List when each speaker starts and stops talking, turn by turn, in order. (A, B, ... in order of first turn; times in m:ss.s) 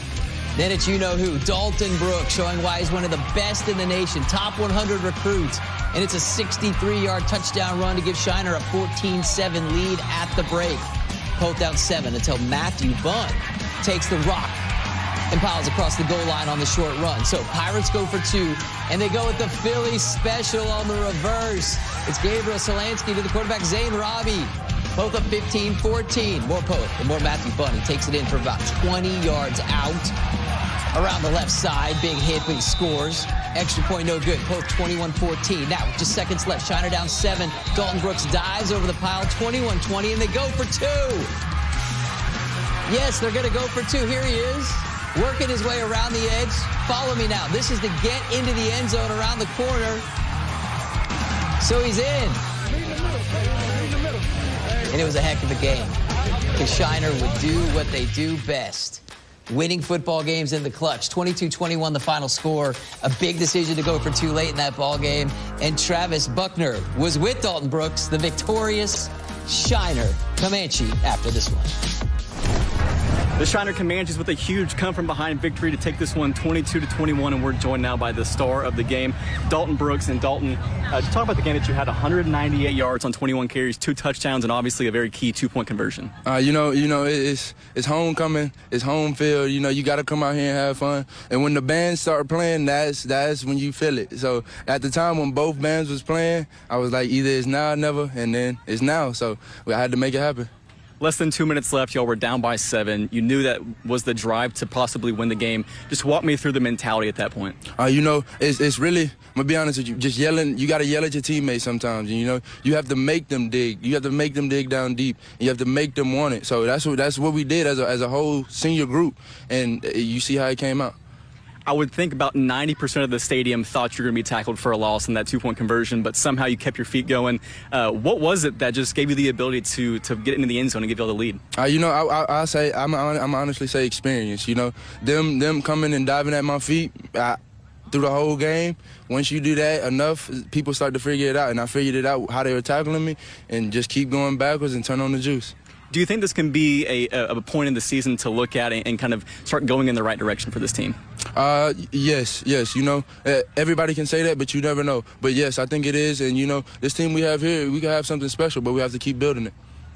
0:00.6-0:14.7 A
0:15.3-0:30.1 A
0:30.9-0:41.3 A
0:42.9-0:50.1 A
0:51.6-0:52.4 A
0:54.9-0:56.0 A
0:56.5-1:11.8 A
1:13.4-1:26.1 B
1:26.2-1:40.5 C
1:41.0-1:47.6 B
1:47.8-2:01.0 C
2:01.7-2:11.4 B
2:11.5-2:17.4 C
2:17.9-2:25.5 C
2:25.9-2:31.0 B
2:31.4-2:39.5 C